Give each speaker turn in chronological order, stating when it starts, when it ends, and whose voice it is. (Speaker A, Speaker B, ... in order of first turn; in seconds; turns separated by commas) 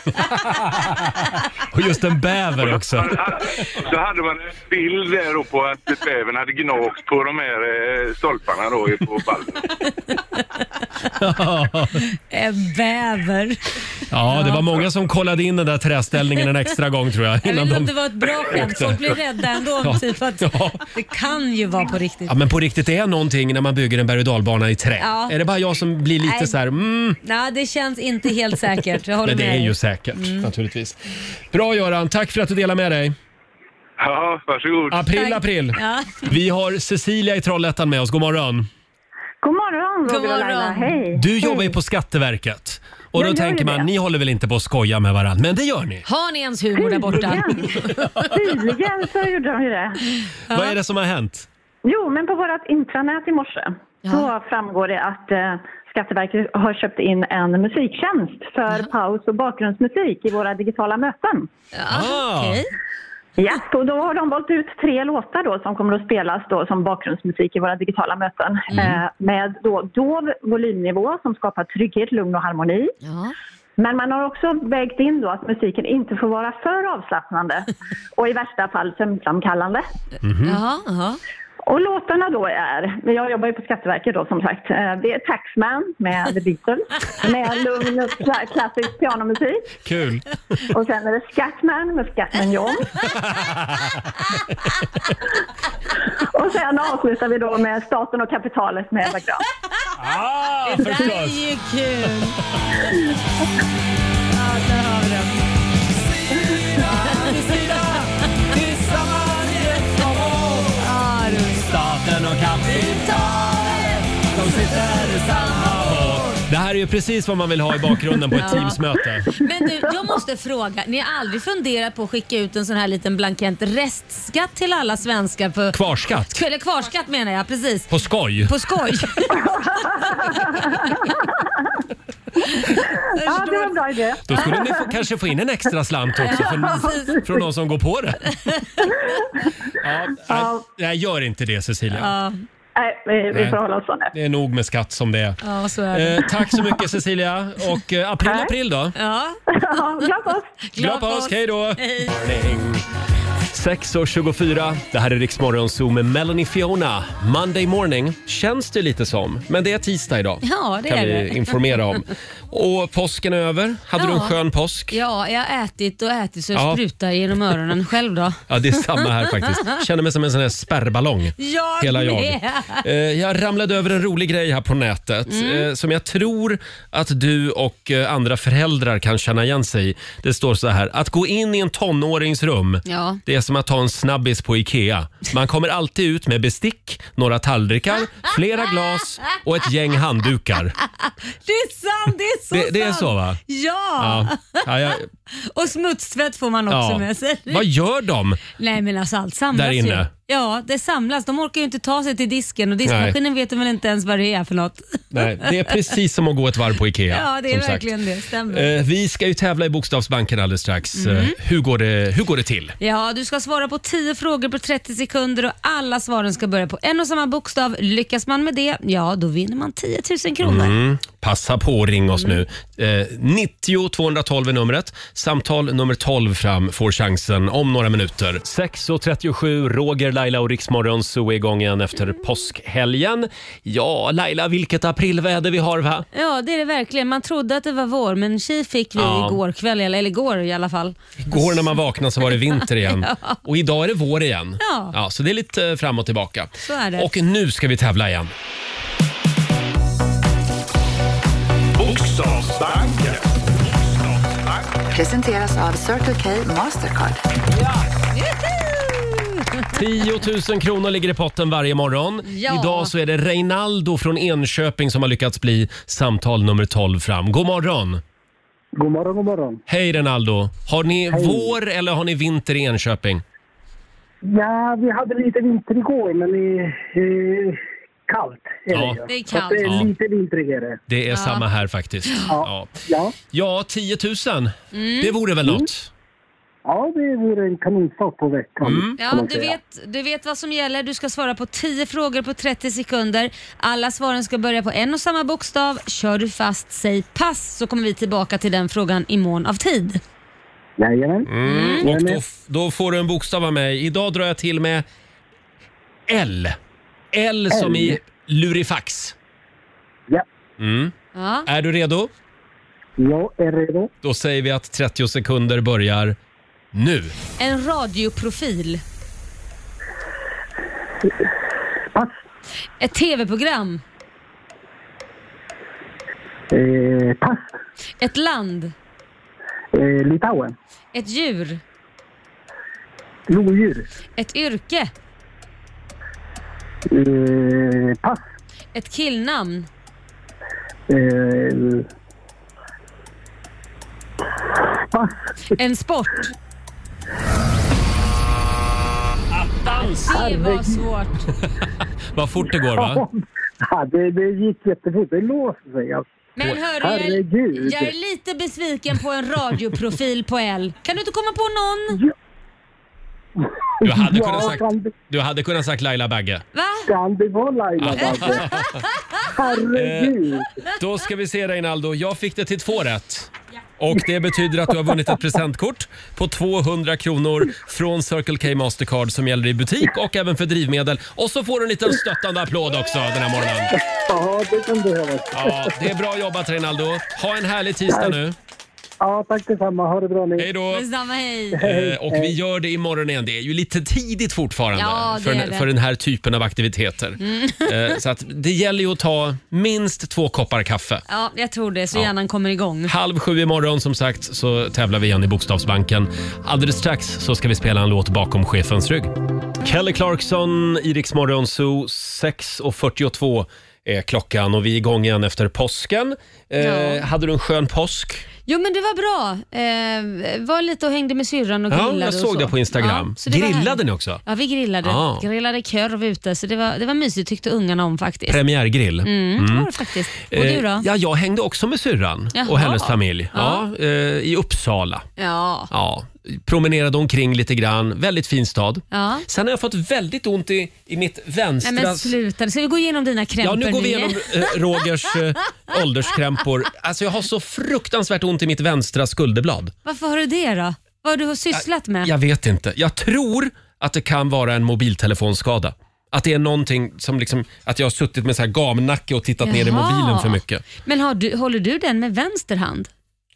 Speaker A: 0.3-3.3, Speaker B: 2.6-9.7, Speaker A: 11.2-12.1, Speaker C: 12.3-13.6, Speaker A: 14.1-19.1, Speaker C: 14.3-14.7, Speaker C: 17.4-22.3, Speaker A: 19.8-20.8, Speaker A: 22.3-27.2, Speaker C: 25.0-25.4, Speaker C: 26.2-26.6, Speaker C: 27.2-30.5, Speaker A: 29.2-31.0, Speaker A: 31.5-33.1, Speaker B: 34.0-35.0, Speaker A: 34.9-38.7, Speaker C: 35.1-36.3, Speaker D: 39.4-41.6, Speaker C: 40.1-41.0, Speaker A: 41.1-46.0, Speaker D: 43.2-43.9, Speaker C: 46.1-48.1, Speaker D: 46.8-50.0, Speaker A: 47.9-48.3, Speaker A: 50.5-51.5, Speaker D: 51.9-61.5, Speaker C: 61.7-62.7, Speaker A: 61.9-62.6, Speaker D: 63.4-72.9, Speaker C: 73.0-73.3, Speaker D: 73.8-79.9, Speaker A: 80.2-80.6, Speaker C: 80.4-81.2, Speaker D: 81.7-89.7, Speaker A: 89.8-90.3, Speaker D: 90.7-92.9, Speaker A: 93.0-94.1, Speaker D: 96.2-99.4, Speaker A: 100.0-101.4, Speaker C: 100.6-102.4, Speaker A: 102.1-102.8, Speaker C: 104.3-105.4, Speaker A: 106.3-110.3, Speaker C: 107.0-108.5, Speaker E: 110.4-110.7, Speaker C: 110.8-111.8, Speaker A: 111.5-119.3, Speaker C: 112.7-113.1, Speaker C: 115.7-116.1, Speaker C: 118.4-118.8, Speaker C: 119.3-127.9, Speaker A: 125.7-126.4, Speaker A: 127.9-128.5, Speaker C: 128.5-131.2, Speaker D: 129.6-131.3, Speaker C: 132.5-133.8, Speaker D: 133.0-134.8, Speaker A: 134.2-138.3, Speaker C: 136.2-137.2, Speaker C: 138.3-139.0, Speaker A: 139.8-142.1, Speaker D: 140.3-140.6, Speaker C: 141.9-142.4, Speaker D: 142.8-144.1, Speaker A: 143.3-143.6, Speaker A: 144.1-145.4, Speaker C: 145.4-146.7, Speaker A: 145.9-149.0, Speaker D: 148.3-148.5, Speaker C: 148.9-149.4, Speaker D: 149.5-150.5, Speaker C: 150.6-152.1, Speaker A: 150.8-152.8, Speaker A: 153.5-164.9, Speaker C: 160.4-161.6, Speaker C: 164.0-164.3, Speaker C: 164.9-169.8, Speaker A: 166.5-166.8, Speaker A: 168.5-190.8, Speaker C: 171.4-172.8, Speaker C: 175.3-175.7, Speaker C: 182.9-183.2, Speaker C: 190.8-194.7, Speaker A: 192.5-193.4, Speaker A: 194.0-195.1, Speaker C: 195.3-197.7, Speaker A: 196.7-198.4, Speaker C: 198.6-205.7, Speaker A: 199.5-200.1, Speaker A: 202.8-203.2, Speaker A: 205.1-207.9, Speaker C: 207.1-208.7, Speaker A: 208.5-212.8, Speaker C: 210.9-211.4, Speaker C: 212.8-220.7, Speaker A: 220.4-236.1, Speaker C: 222.2-222.4, Speaker C: 236.1-241.7, Speaker A: 239.0-239.4, Speaker A: 241.2-248.3, Speaker C: 242.2-243.4, Speaker C: 244.6-244.9, Speaker C: 246.6-247.1, Speaker E: 251.8-254.7, Speaker F: 254.9-257.2, Speaker C: 258.1-259.7, Speaker A: 259.7-268.0, Speaker C: 262.2-262.9, Speaker G: 268.8-269.6, Speaker A: 269.7-273.2, Speaker G: 271.1-271.5, Speaker G: 274.2-280.8, Speaker A: 278.7-279.0, Speaker C: 279.1-279.8, Speaker A: 280.9-282.8, Speaker C: 281.1-281.4, Speaker G: 282.3-283.2, Speaker A: 283.3-285.9, Speaker C: 284.7-285.1, Speaker G: 286.6-289.6, Speaker A: 288.6-289.0, Speaker C: 289.0-300.0, Speaker G: 300.8-301.3, Speaker A: 301.3-304.9, Speaker C: 301.4-301.9, Speaker G: 301.8-302.2, Speaker A: 306.1-306.6, Speaker A: 307.1-309.2, Speaker G: 307.5-308.0, Speaker A: 310.6-310.9, Speaker C: 311.1-311.5, Speaker A: 311.5-312.1, Speaker G: 313.0-313.9, Speaker A: 314.0-316.2, Speaker A: 316.7-317.1, Speaker C: 317.4-318.8, Speaker C: 322.8-323.8, Speaker G: 326.5-327.5, Speaker C: 328.0-328.7, Speaker G: 329.7-330.5, Speaker C: 330.9-331.6, Speaker G: 333.3-333.9, Speaker C: 334.2-334.9, Speaker G: 336.9-338.2, Speaker C: 338.8-339.7, Speaker G: 340.9-341.9, Speaker G: 344.9-345.3, Speaker C: 345.5-346.3, Speaker A: 349.3-350.1, Speaker C: 349.6-351.3, Speaker G: 350.1-350.8, Speaker A: 352.1-353.0, Speaker G: 352.7-356.1, Speaker C: 356.4-362.0, Speaker G: 356.8-357.9, Speaker G: 363.8-364.9, Speaker A: 363.8-366.4, Speaker C: 366.5-366.9, Speaker G: 366.9-368.5, Speaker A: 367.8-368.8, Speaker G: 369.2-370.5, Speaker A: 369.7-370.2, Speaker A: 370.8-383.7, Speaker G: 383.7-385.8, Speaker A: 385.3-388.4, Speaker G: 387.9-388.1, Speaker G: 389.0-390.5, Speaker A: 390.4-390.9, Speaker C: 390.7-391.6, Speaker G: 391.5-392.4, Speaker A: 391.6-401.0, Speaker C: 394.8-395.7, Speaker C: 397.2-397.7, Speaker C: 401.1-402.9, Speaker A: 402.9-418.2, Speaker C: 416.6-417.0, Speaker C: 418.5-428.4, Speaker A: 421.7-424.2, Speaker A: 424.8-425.2, Speaker A: 428.3-429.7, Speaker C: 429.0-430.9, Speaker A: 430.3-435.1, Speaker C: 432.4-433.6, Speaker C: 435.2-435.7, Speaker A: 435.7-442.1, Speaker C: 438.9-439.2, Speaker C: 441.6-444.5, Speaker A: 443.4-449.8, Speaker C: 449.9-452.1, Speaker A: 451.5-460.6, Speaker C: 459.4-462.9